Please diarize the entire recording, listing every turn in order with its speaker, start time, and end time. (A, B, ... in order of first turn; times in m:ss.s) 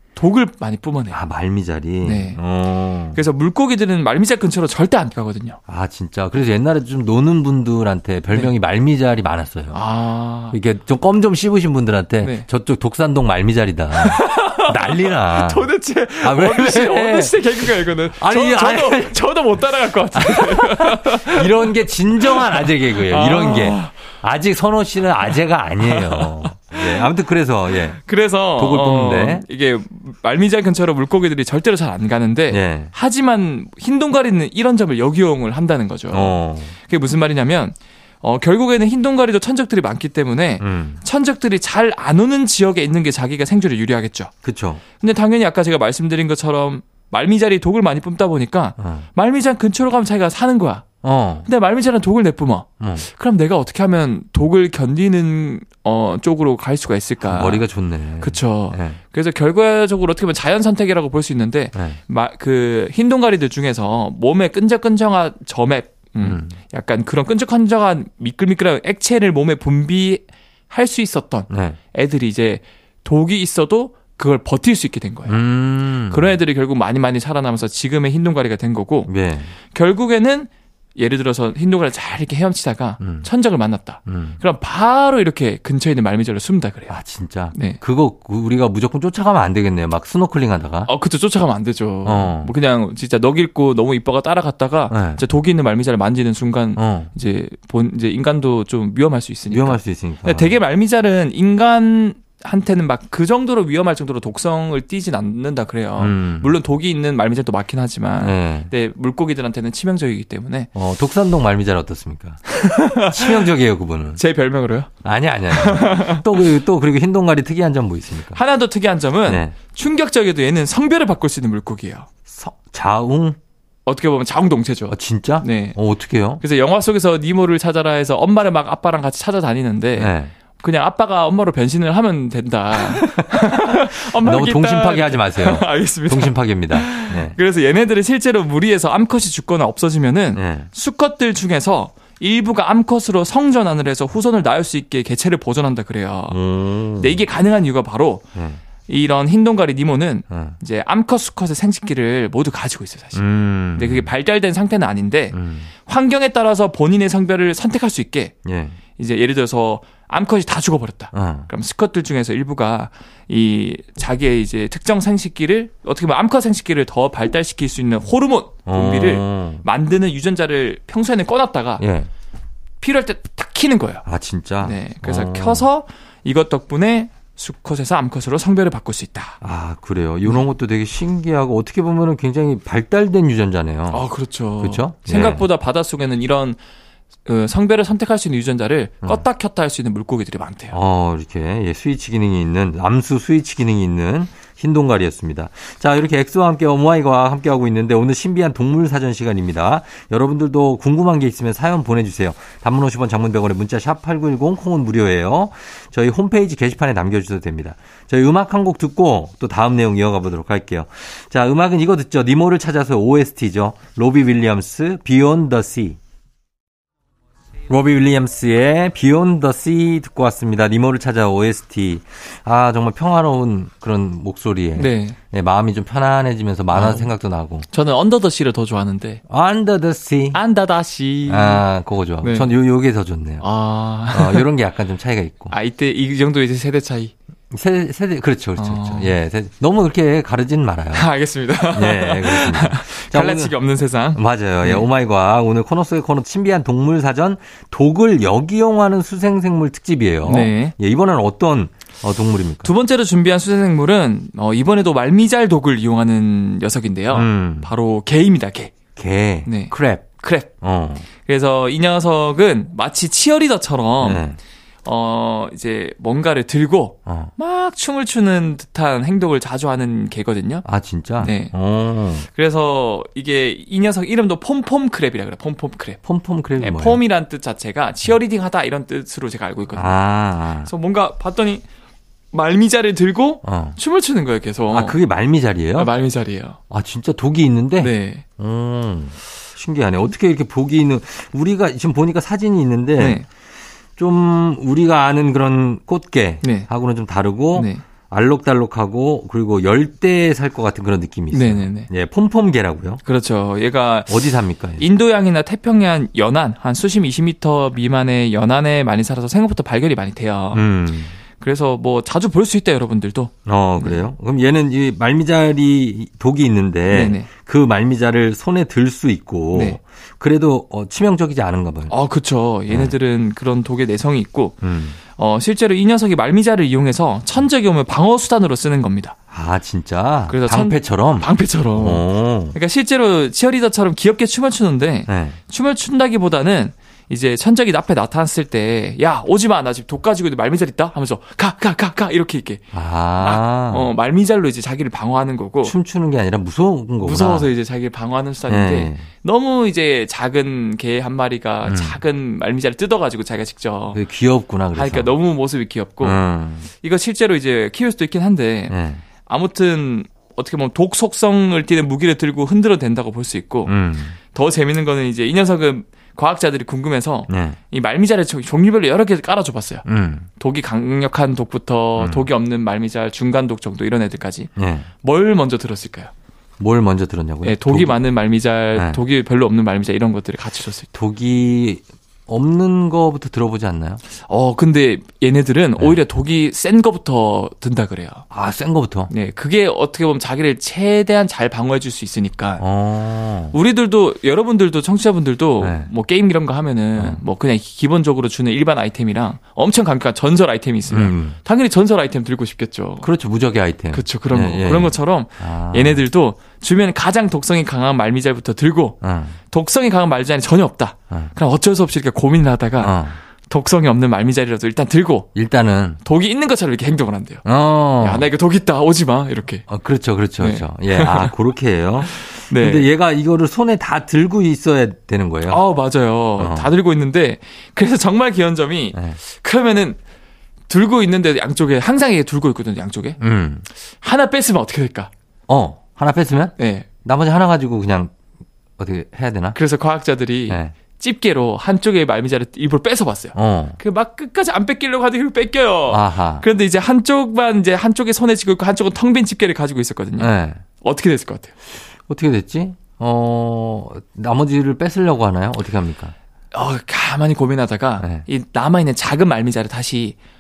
0:00.2-0:01.2 A
0:01.1-0:03.2 B
0:02.0-0:02.4 A
0:03.1-0:05.6 A
0:05.7-0:09.8 B
0:09.7-0:10.6 A
0:10.5-0:19.2 B
0:12.2-0:12.5 A
0:14.0-0:24.0 A
0:20.1-0:28.0 B
0:25.8-0:27.1 A
0:28.0-0:44.3 A
0:28.6-0:29.4 B
0:32.5-0:32.9 B
0:36.1-0:36.7 B
0:40.6-0:41.0 B
0:44.4-0:44.8 B
0:45.0-0:50.8 A
0:48.8-0:49.1 B
0:51.0-0:51.5 B
0:51.4-0:57.7 A
0:52.8-0:53.1 B
0:57.2-0:59.0 B
0:58.2-1:15.4 A
1:06.2-1:06.6 B
1:11.5-1:11.8 B
1:15.3-1:16.4 B
1:16.1-1:19.1 A
1:19.1-1:19.5 B
1:19.7-1:27.0 A
1:23.0-1:23.3 B
1:24.1-1:24.4 B
1:26.9-1:30.9 B
1:27.5-1:27.8 A
1:30.9-1:50.7 A
1:32.0-1:32.5 B
1:34.9-1:35.2 B
1:36.8-1:37.1 B
1:39.5-1:40.6 B
1:46.0-1:46.6 B
1:48.2-1:48.7 B
1:50.8-1:52.4 B
1:52.5-1:53.5 A
1:53.0-1:54.2 B
1:54.2-1:54.9 A
1:55.0-1:58.4 B
1:55.5-1:56.6 A
1:58.3-2:02.1 A
1:59.2-1:59.5 B
2:02.3-2:03.4 B
2:03.9-2:05.8 A
2:04.9-2:06.4 B
2:06.4-2:26.4 A
2:10.0-2:10.3 B
2:12.8-2:13.3 B
2:14.0-2:17.4 B
2:20.4-2:20.7 B
2:26.3-2:27.2 B
2:27.0-2:28.3 A
2:28.4-2:28.6 B
2:28.9-2:33.2 A
2:30.3-2:30.6 B
2:33.2-2:34.1 B
2:33.8-2:38.3 A
2:35.3-2:35.7 B
2:38.4-2:38.8 B
2:39.0-2:51.8 A
2:41.1-2:41.5 B
2:48.7-2:49.6 B
2:51.8-2:52.1 B
2:52.8-2:54.0 A
2:54.0-2:55.7 B
2:54.6-2:59.4 A
2:59.4-3:04.0 B
3:03.9-3:06.6 A
3:04.6-3:05.5 B
3:07.3-3:10.8 A
3:10.7-3:36.0 B
3:37.7-3:47.7 B
3:44.8-3:45.2 A
3:46.7-3:47.1 A
3:47.7-3:49.2 A
3:49.3-3:50.4 B
3:50.3-3:51.7 A
3:51.3-3:53.5 B
3:52.2-3:52.5 A
3:53.4-3:54.5 A
3:54.1-3:55.6 B
3:55.5-3:57.1 A
3:57.5-4:01.1 B
3:58.6-3:59.2 A
4:00.9-4:04.9 A
4:01.7-4:03.6 B
4:04.1-4:12.7 B
4:10.2-4:10.8 A
4:12.6-4:18.7 A
4:17.1-4:17.7 B
4:19.0-4:20.0 B
4:19.5-4:20.5 A
4:20.6-4:21.1 B
4:21.1-4:24.3 A
4:24.0-4:24.4 B
4:24.8-4:30.6 A
4:27.1-4:27.3 B
4:30.6-4:32.3 B
4:31.2-4:31.5 A
4:32.2-4:36.0 A
4:36.0-4:37.0 B
4:36.6-4:40.0 A
4:39.7-4:40.7 B
4:40.6-4:41.6 A
4:42.3-4:45.0 A
4:43.4-4:43.8 B
4:44.7-4:45.9 B
4:45.8-4:46.6 A
4:46.7-4:53.2 B
4:47.8-4:48.2 A
4:53.0-4:53.2 A
4:54.0-5:03.0 B
4:56.4-4:56.7 A
4:57.5-4:57.8 A
5:01.3-5:01.9 A
5:03.0-5:10.7 A
5:04.1-5:04.8 B
5:10.5-5:11.2 B
5:11.4-5:14.1 A
5:13.5-5:21.9 B
5:16.9-5:17.3 A
5:19.5-5:19.8 A
5:21.9-5:29.2 A
5:24.6-5:25.0 B
5:29.3-5:32.6 B
5:30.3-5:42.7 A
5:35.1-5:35.4 B
5:42.7-5:43.9 B
5:43.2-5:45.8 A
5:45.6-5:47.5 B
5:47.0-5:54.0 A
5:48.5-5:49.0 B
5:51.6-5:52.0 B
5:53.9-5:55.1 B
5:54.7-5:56.2 A
5:56.0-5:56.7 B
5:56.7-6:09.8 A
5:58.7-5:59.0 B
6:03.7-6:04.2 B
6:07.3-6:07.6 B
6:09.9-6:10.3 B
6:10.4-6:14.5 A
6:12.0-6:12.3 B
6:14.6-6:14.9 B
6:15.0-6:16.1 A
6:16.6-6:18.0 B
6:17.4-6:20.9 A
6:18.7-6:19.0 B
6:20.9-6:24.0 B
6:24.2-6:28.2 A
6:28.3-6:29.1 B
6:29.1-6:32.6 A
6:32.6-6:33.6 B
6:33.5-6:43.1 A
6:35.6-6:35.9 B
6:37.0-6:37.2 B
6:40.9-6:41.4 B
6:43.0-6:46.0 B
6:43.9-6:49.0 A
6:49.0-6:49.4 B
6:49.5-6:55.3 A
6:52.8-6:53.2 B
6:55.4-6:56.0 B
6:56.0-6:57.4 A
6:57.4-6:58.3 B
6:58.0-6:59.7 A
6:59.7-7:05.6 B
7:00.4-7:01.3 A
7:02.0-7:02.9 A
7:05.5-7:10.0 A
7:06.4-7:06.7 B
7:08.9-7:09.2 B
7:10.7-7:13.2 A
7:13.2-7:13.7 B
7:13.9-7:15.1 A
7:15.5-7:18.1 B
7:16.6-7:16.9 A
7:18.8-7:19.6 B
7:19.6-7:31.5 A
7:20.5-7:20.8 B
7:23.4-7:23.8 B
7:25.9-7:26.4 B
7:30.2-7:30.6 B
7:32.1-7:36.1 B
7:36.5-7:40.2 A